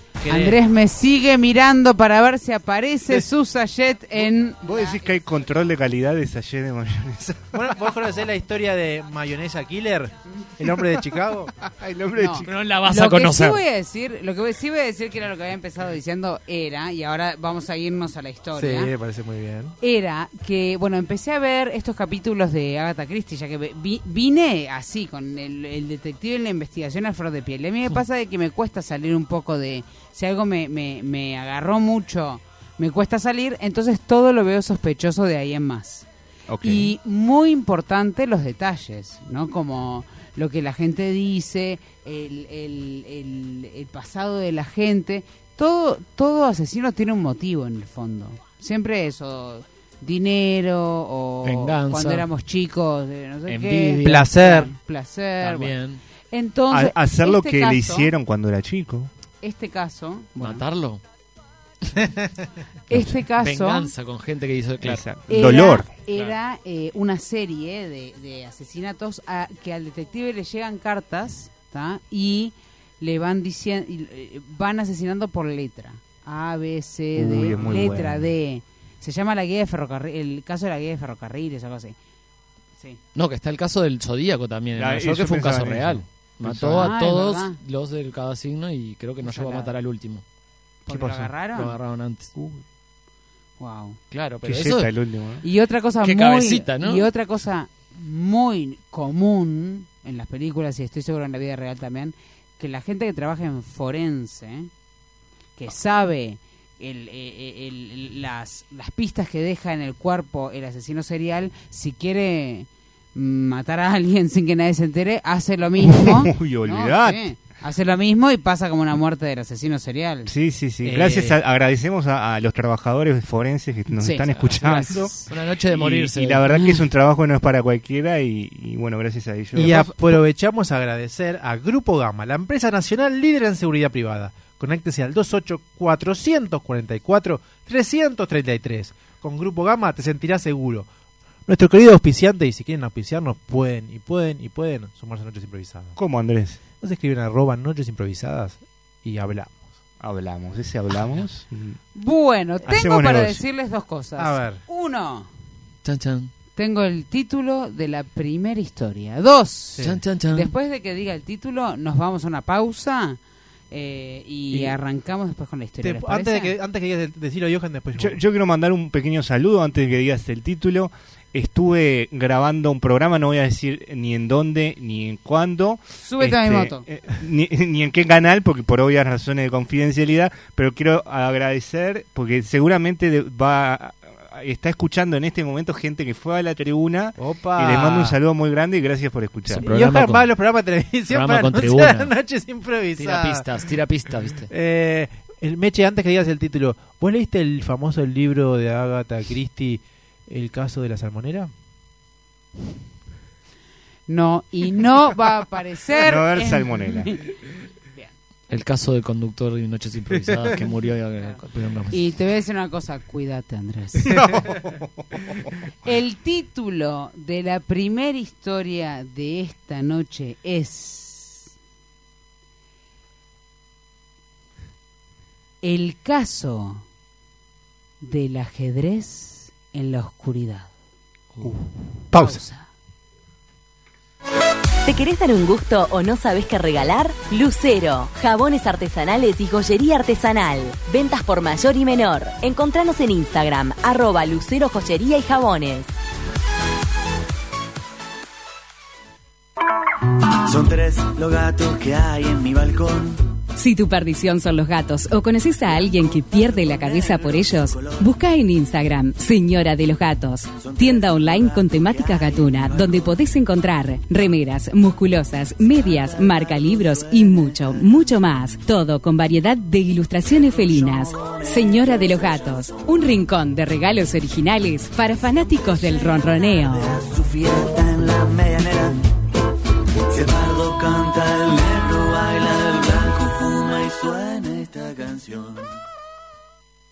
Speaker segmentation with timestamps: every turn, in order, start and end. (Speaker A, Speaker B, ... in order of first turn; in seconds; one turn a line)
Speaker A: 0.2-5.0
Speaker B: 0.2-0.6
Speaker C: 4.2-7.7
Speaker B: 7.5-11.5
Speaker C: 11.5-12.5
Speaker A: 12.2-18.9
Speaker D: 12.4-13.6
Speaker B: 18.5-19.8
Speaker A: 19.8-36.1
Speaker C: 36.5-36.9
Speaker A: 36.6-55.7
Speaker D: 51.4-52.3
Speaker D: 53.5-54.3
Speaker B: 54.0-54.7
Speaker D: 55.4-56.0
Speaker A: 56.3-58.1
Speaker C: 56.7-59.1
Speaker A: 59.4-60.6
Speaker D: 60.4-61.0
Speaker B: 62.0-62.3
Speaker A: 62.9-63.9
Speaker D: 63.4-65.0
Speaker C: 64.8-65.9
Speaker A: 65.3-82.0
Speaker C: 77.2-78.3
Speaker D: 83.2-90.2
Speaker C: 84.8-86.9
Speaker A: 86.7-87.6
Speaker A: 89.2-89.7
Speaker A: 90.9-91.8
Speaker C: 90.9-91.3
Speaker D: 91.5-92.3
Speaker C: 92.3-92.6
Speaker A: 93.6-94.0
Speaker D: 94.1-94.9
Speaker C: 94.4-95.4
Speaker A: 95.4-104.7
Speaker D: 96.0-97.1
Speaker A: 105.6-120.3
Speaker C: 115.8-117.3
Speaker C: 120.3-125.1
Speaker B: 120.8-121.4
Speaker A: 124.0-125.3
Speaker D: 124.4-126.5
Speaker C: 125.7-130.2
Speaker B: 129.6-140.9
Speaker B: 141.5-146.0
Speaker C: 146.0-146.6
Speaker B: 146.8-149.7
Speaker C: 150.0-151.8
Speaker A: 151.9-155.3
Speaker C: 152.7-153.4
Speaker B: 154.2-154.6
Speaker D: 155.8-156.3
Speaker A: 156.6-163.2
Speaker D: 159.8-160.5
Speaker A: 163.7-166.6
Speaker B: 165.8-168.2
Speaker C: 168.0-189.7
Speaker A: 176.0-176.8
Speaker B: 187.2-188.2
Speaker D: 189.5-190.3
Speaker B: 189.7-193.4
Speaker D: 191.1-192.1
Speaker D: 193.0-194.5
Speaker B: 194.5-201.5
Speaker A: 204.1-207.3
Speaker C: 206.0-207.1
Speaker D: 208.5-212.2
Speaker A: 211.9-214.1
Speaker C: 214.1-215.5
Speaker A: 215.8-221.5
Speaker A: 225.6-226.8
Speaker A: 228.0-230.7
Speaker C: 231.4-231.7
Speaker B: 232.1-232.4
Speaker A: 232.1-232.7
Speaker E: 234.8-245.9
Speaker F: 250.4-253.3
Speaker G: 253.6-277.0
Speaker F: 255.7-258.1
Speaker F: 260.5-263.1
Speaker F: 266.4-267.7
Speaker F: 270.5-272.9
Speaker F: 275.5-279.1
Speaker F: 280.1-285.7